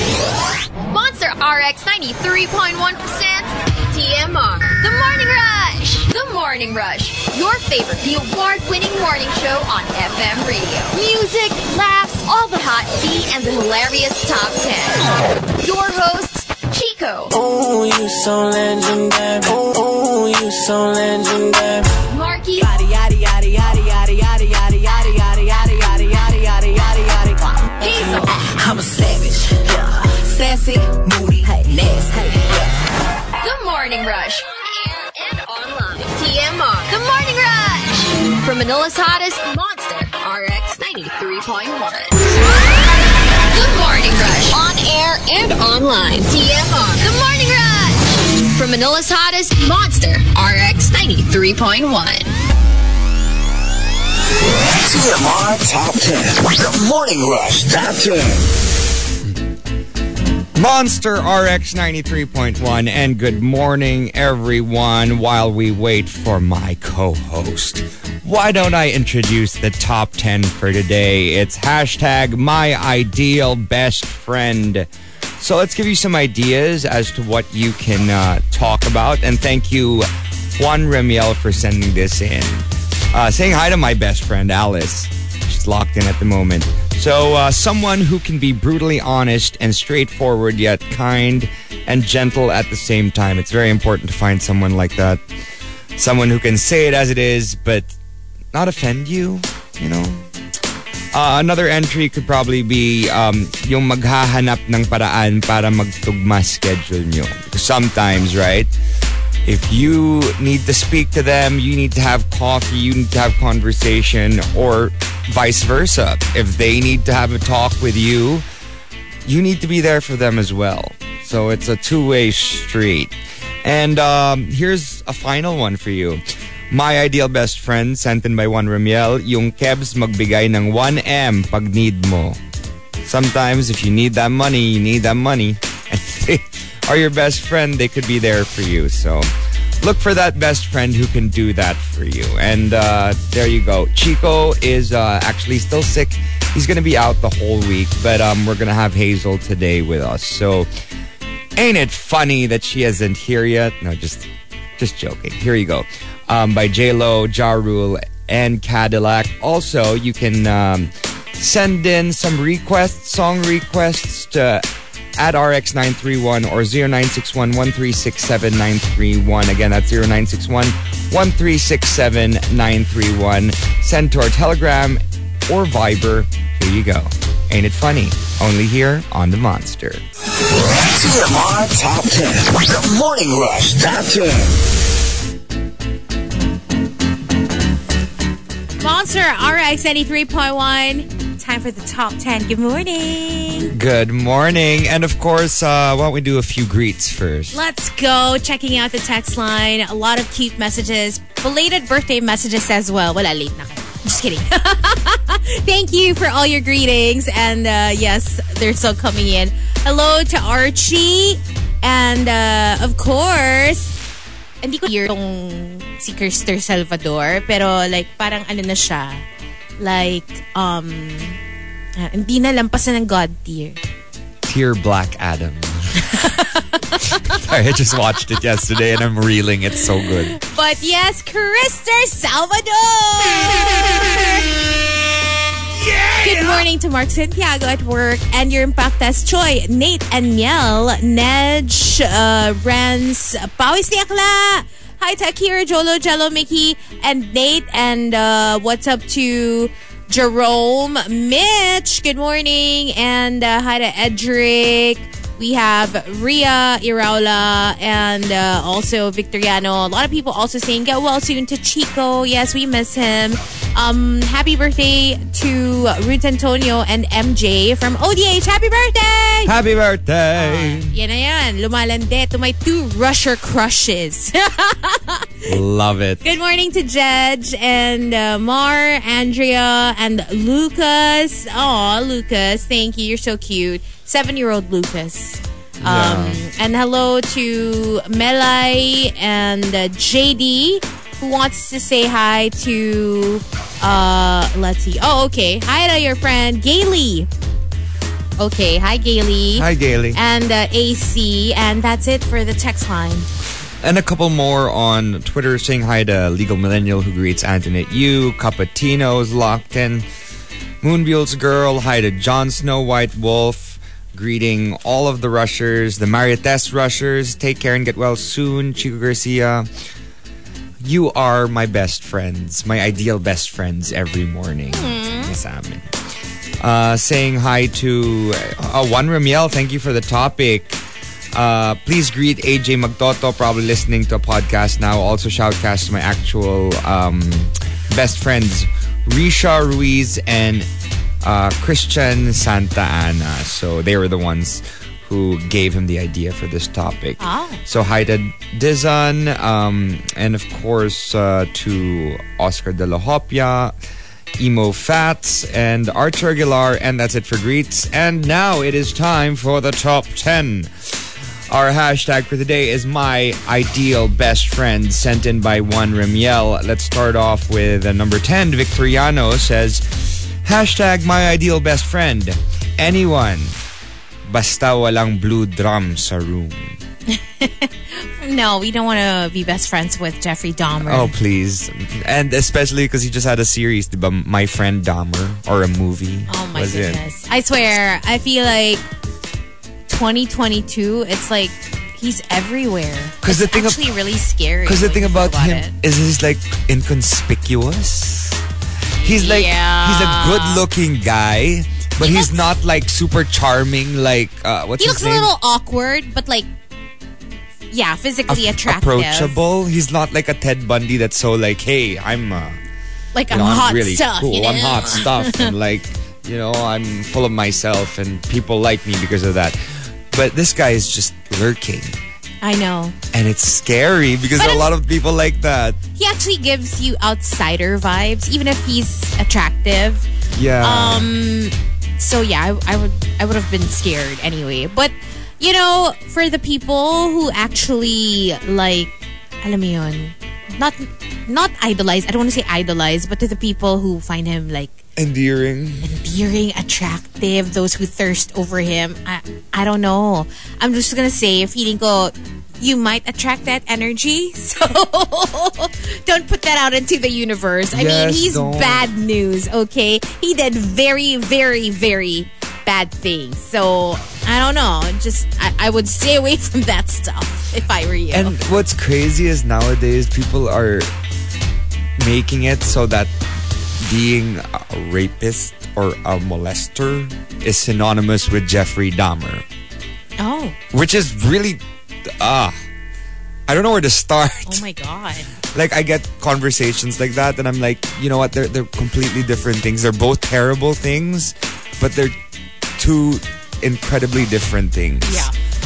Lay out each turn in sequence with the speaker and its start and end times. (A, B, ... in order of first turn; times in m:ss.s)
0:00.9-0:17.3 A
0:17.3-0:21.9 B
0:22.0-0:22.8 A
0:27.8-0:28.9 A
0:30.2-0:32.4 A
0:33.4-0:42.6 A
0:43.5-0:52.3 A
0:54.4-0:58.5 C
1:00.6-1:35.2 D
1:36.0-1:37.9 D
1:38.5-1:40.3 D
1:41.1-1:48.7 D
1:49.4-1:58.4 D
1:59.2-2:12.4 D
2:13.0-2:19.3 D
2:19.8-2:30.7 D
2:31.6-3:00.0 D
3:00.4-3:04.6 C
3:08.8-3:13.7 E
3:13.7-3:17.5 D
3:17.5-3:34.0 E
3:34.6-3:39.2 E
3:39.8-3:41.4 E
3:42.0-3:43.8 E
3:44.4-3:46.0 D
3:46.0-3:46.6 E
3:47.2-3:50.4 D
3:50.3-3:54.7 E
3:55.8-3:56.6 D
3:56.2-4:29.5 E
4:29.4-4:30.9 D
4:30.4-4:35.5 E
4:35.4-4:36.2 D
4:36.2-4:57.3 E
4:45.8-4:46.4 D
4:58.4-5:03.3 E
4:59.5-5:00.2 D
5:03.8-5:10.1 D
5:10.8-5:19.7 D
5:20.8-5:25.9 D
5:24.7-5:25.3 E
5:26.6-5:30.8 D
5:31.3-5:40.7 D
5:41.2-5:53.7 D
5:47.2-5:47.6 E
5:54.4-6:13.6 D
6:14.2-6:16.8 D
6:17.1-6:21.1 E
6:20.8-6:27.0 D
6:26.3-6:28.8 E
6:29.9-6:35.7 E
6:33.2-6:33.8 D
6:34.6-6:38.4 D
6:39.0-6:40.6 E
6:39.0-6:45.3 D
6:42.0-6:42.5 E
6:44.8-6:46.5 E
6:47.7-6:49.4 E
6:48.3-6:52.6 D
6:53.1-6:55.5 E
6:53.3-7:02.0 D
7:02.4-7:02.9 E
7:03.1-7:05.8 D
7:04.4-7:04.7 E
7:06.0-7:10.1 E
7:10.3-7:11.1 D
7:10.6-7:24.8 E
7:25.0-7:25.9 D
7:25.8-7:48.6 E
7:37.7-7:38.9 D
7:48.1-7:50.9 D
7:52.0-7:53.1 D
7:53.8-7:59.4 D
8:00.2-8:00.6 E
8:00.7-8:02.6 D
8:03.5-8:04.6 D
8:04.4-8:05.3 E
8:05.5-8:12.2 D
8:12.8-8:15.3 D
8:15.0-8:15.3 E